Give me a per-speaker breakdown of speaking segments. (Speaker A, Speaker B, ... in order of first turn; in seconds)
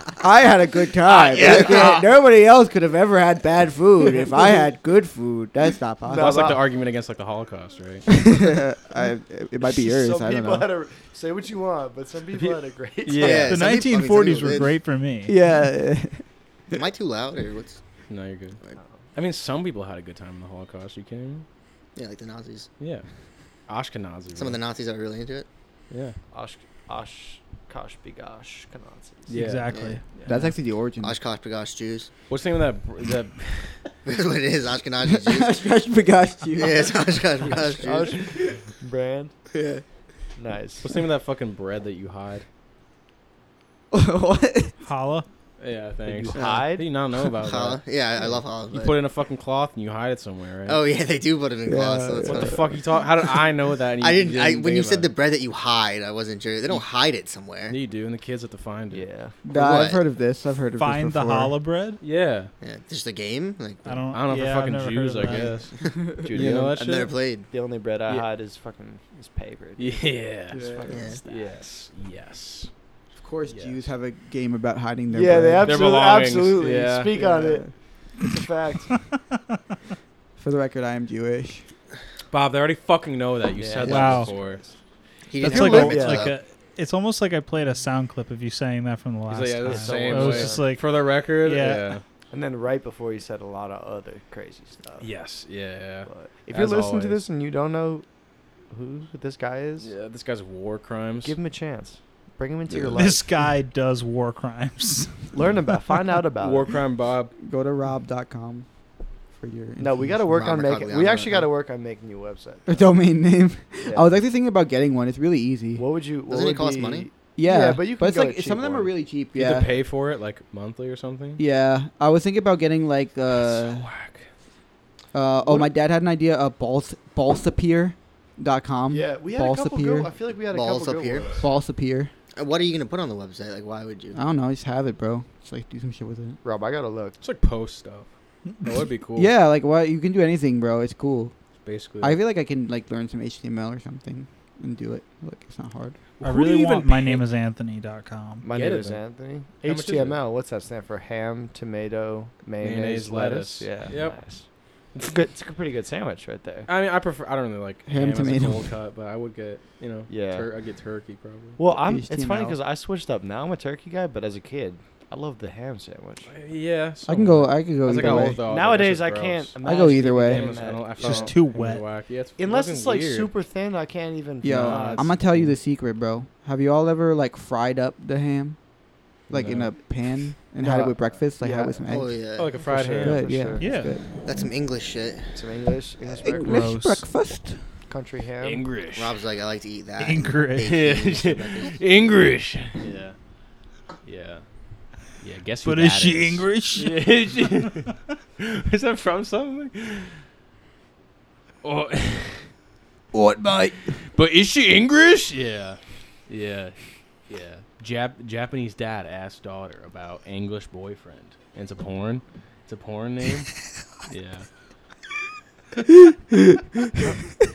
Speaker A: 0.2-6.6, 8.1-10.7, 15.3-16.8, 30.2-31.2, 35.0-37.6, 43.9-44.8, 51.7-52.6, 59.5-61.6, 65.8-66.3, 70.5-71.1, 73.1-75.8, 77.2-77.7, 80.4-81.7, 107.4-108.7, 109.4-110.4, 112.7-115.9, 117.4-119.8, 121.4-123.9, 125.1-130.1, 131.4-132.1, 134.1-136.4, 139.2-141.3, 142.0-146.0, 157.9-158.8, 161.8-162.6, 167.1-168.4, 169.6-170.5, 174.4-178.6, 179.3-182.2, 183.0-184.1, 186.2-187.7, 203.1-203.9, 216.3-217.1
Speaker B: 1.1-2.0, 6.0-6.6, 9.7-13.6, 26.3-29.4, 30.1-30.5, 37.5-39.3, 40.4-40.9, 46.0-47.0, 58.9-59.4, 66.2-66.8, 67.5-71.6, 75.1-79.0, 83.5-84.8, 85.4-86.3, 89.6-90.8, 92.3-95.1, 96.1-98.0, 98.7-99.9, 101.2-103.3, 105.3-106.7, 109.8-112.8, 113.8-114.2, 115.8-118.9, 128.9-131.4, 136.4-137.2, 148.4-156.7, 160.1-160.5, 161.6-166.3, 167.9-171.3, 172.4-175.3, 180.6-181.9, 182.6-183.7, 185.3-186.7, 187.9-188.7
Speaker C: 1.2-2.0, 13.2-14.8, 16.7-17.8, 22.0-22.7, 24.4-25.5, 29.7-30.0, 31.0-32.1, 34.0-35.7, 36.6-38.4, 39.5-39.8, 46.4-49.0, 50.7-52.7, 54.0-57.8, 59.5-60.0, 62.6-64.0, 65.3-67.5, 70.9-71.2, 85.3-86.3, 110.3-111.5, 116.3-117.1, 130.5-131.4, 132.3-134.2, 181.9-182.6, 184.2-185.4, 188.9-191.8
Speaker D: 6.1-8.1, 12.3-13.6, 18.1-18.6, 19.1-21.4, 22.8-23.1, 23.7-24.6, 25.9-26.2, 29.3-29.8, 32.3-33.8, 40.8-42.5, 45.6-50.8, 52.2-55.1, 57.7-59.1, 62.0-62.5, 64.1-65.8, 66.3-67.1, 69.8-70.6, 71.2-72.7, 75.6-77.1, 82.3-84.6, 89.3-92.0, 95.0-97.2, 99.8-101.3, 106.4-107.3, 119.3-121.4, 123.3-124.2, 137.2-138.1, 138.6-139.3, 141.6-142.2, 146.2-147.2, 148.5-149.0, 149.6-150.2, 152.6-154.2, 156.7-161.6, 166.3-169.6, 170.2-173.3, 174.5-175.2, 179.3-179.7, 182.4-183.5, 188.4-189.2, 190.6-193.2, 194.0-194.4, 195.2-200.2, 201.6-202.5, 204.0-206.8, 207.3-214.5
Speaker E: 13.5-15.3, 29.3-30.5, 44.8-45.3, 60.8-62.0, 63.8-65.5, 83.9-84.3, 85.4-91.9, 102.9-105.3, 146.2-148.5, 171.0-171.8, 183.6-183.9, 186.4-187.1, 190.0-190.7, 195.7-197.5